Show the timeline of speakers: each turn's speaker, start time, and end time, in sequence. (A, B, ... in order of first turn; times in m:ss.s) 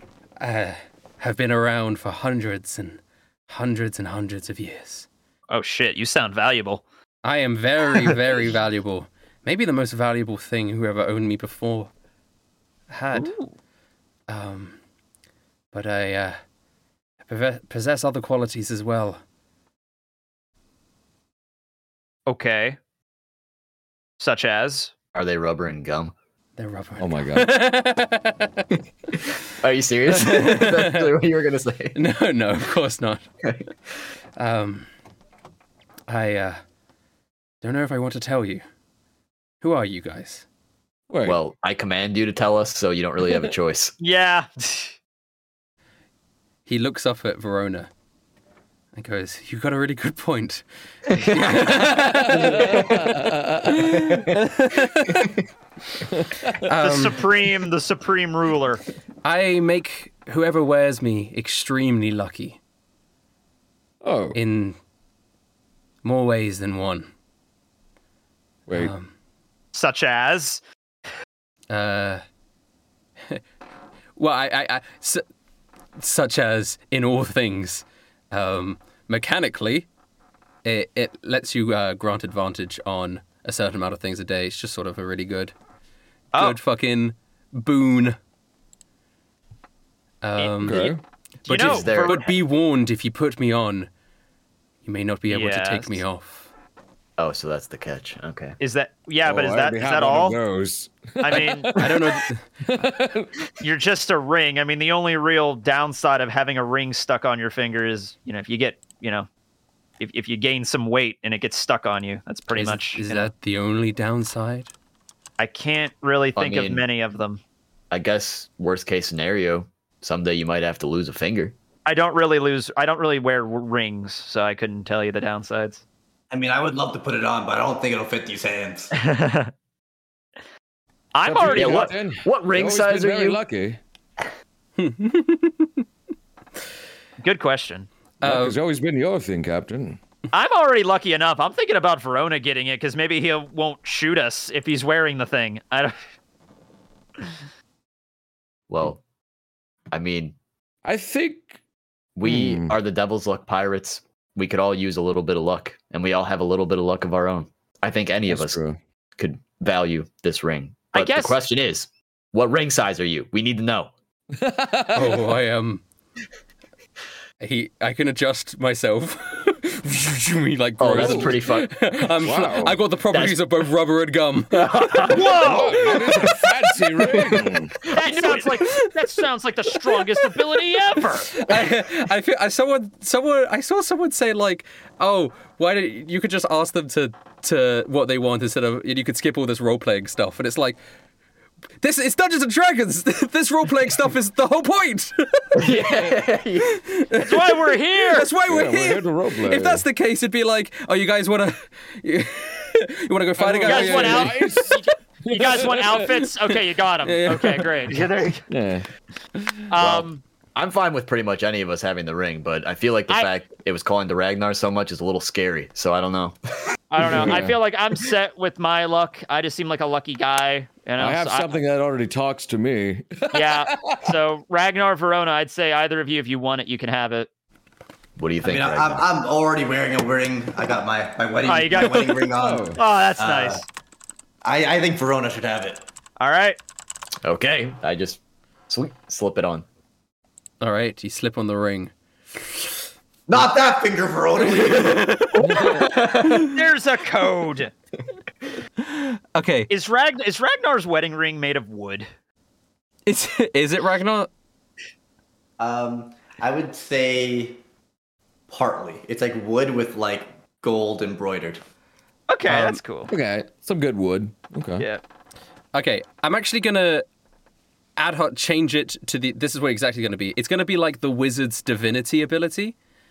0:00.4-0:05.1 A
0:05.5-0:06.8 B
0:07.2-0:11.9 A
0:12.9-0:13.3 A
0:13.1-0:13.5 B
0:14.3-0:14.8 A
0:15.7-0:16.4 A
0:17.2-0:19.2 A
0:22.3-0:22.8 B
0:24.2-0:24.9 B
0:25.1-0:26.1 C
0:26.6-0:28.6 A
0:27.0-0:27.6 D
0:29.6-0:32.0 C
0:30.1-0:31.1 A
0:31.9-0:33.2 A
0:33.4-0:33.7 C
0:34.4-0:34.9 A
0:36.1-0:36.6 A
0:37.6-0:38.6 A
0:39.6-0:40.4 A
0:41.1-0:41.4 D
0:41.2-0:43.9 C
0:44.0-0:44.9 B
0:46.6-0:47.9 A
0:48.9-0:53.2 A
0:52.2-0:53.9 D
0:53.8-0:55.3 A
0:56.1-0:56.6 D
0:56.6-0:57.2 A
0:56.8-0:58.8 B
0:59.2-1:02.6 A
1:04.0-1:04.4 D
1:04.3-1:04.8 A
1:06.0-1:07.1 A
1:08.7-1:08.9 D
1:08.7-1:09.1 A
1:09.7-1:10.6 B
1:11.7-1:12.2 A
1:14.2-1:15.2 A
1:16.0-1:19.9 A
1:20.6-1:25.5 A
1:26.3-1:28.2 A
1:30.2-1:30.9 A
1:30.4-1:32.2 B
1:30.6-1:31.0 D
1:31.5-1:33.9 A
1:31.5-1:32.3 C
1:34.8-1:36.5 A
1:35.3-1:36.0 B
1:37.2-1:38.6 C
1:38.6-1:40.4 B
1:39.2-1:43.4 D
1:41.2-1:41.7 B
1:41.8-1:42.4 A
1:43.6-1:49.3 B
1:50.0-1:53.3 B
1:52.5-1:54.7 A
1:55.4-1:57.4 B
1:56.4-1:56.8 C
1:57.9-2:01.5 C
2:01.8-2:05.8 B
2:06.3-2:08.9 E
2:08.9-2:09.5 B
2:11.1-2:11.9 B
2:11.2-2:13.8 D
2:11.4-2:13.4 C
2:14.8-2:15.8 A
2:17.2-2:17.9 B
2:18.2-2:18.6 A
2:18.2-2:20.0 D
2:20.3-2:26.0 B
2:28.7-2:29.0 C
2:29.9-2:30.3 C
2:30.8-2:31.6 D
2:32.2-2:38.6 C
2:32.2-2:32.7 D
2:38.3-2:38.8 D
2:39.2-2:43.9 C
2:40.9-2:41.4 B
2:44.3-2:45.3 D
2:44.9-2:45.8 A
2:47.4-2:55.1 A
2:50.8-2:51.7 C
2:50.9-2:51.4 D
2:52.2-2:52.8 D
2:53.1-2:53.4 C
2:54.5-2:55.2 C
2:55.0-2:56.0 B
2:55.4-2:57.8 D
2:57.9-3:01.4 B
2:58.0-2:58.9 A
3:01.3-3:10.8 A
3:11.8-3:15.7 A
3:15.5-3:16.8 C
3:15.8-3:16.1 D
3:16.6-3:24.4 A
3:17.2-3:18.3 B
3:18.5-3:19.8 D
3:23.4-3:26.2 D
3:23.6-3:28.4 B
3:27.0-3:27.8 A
3:28.5-3:28.8 D
3:29.4-3:29.6 D
3:29.7-3:30.2 B
3:29.8-3:36.4 C
3:36.9-3:41.6 B
3:37.0-3:37.6 D
3:41.0-3:44.1 D
3:43.3-3:47.3 B
3:48.2-3:49.0 C
3:48.4-3:53.6 E
3:51.4-3:52.2 B
3:52.4-3:52.8 D
3:52.7-3:53.6 B
3:54.4-3:55.8 E
3:56.2-3:56.6 B
3:57.2-3:59.6 C
4:00.6-4:02.7 A
4:03.3-4:05.3 E
4:04.8-4:05.5 A
4:05.4-4:05.8 D
4:05.6-4:06.5 C
4:06.4-4:07.7 B
4:08.8-4:09.7 A
4:09.7-4:12.1 B
4:13.0-4:14.3 A
4:15.6-4:17.6 E
4:18.5-4:21.6 E
4:22.3-4:23.1 B
4:22.4-4:22.8 A
4:23.1-4:24.8 D
4:25.7-4:27.0 A
4:28.0-4:32.8 A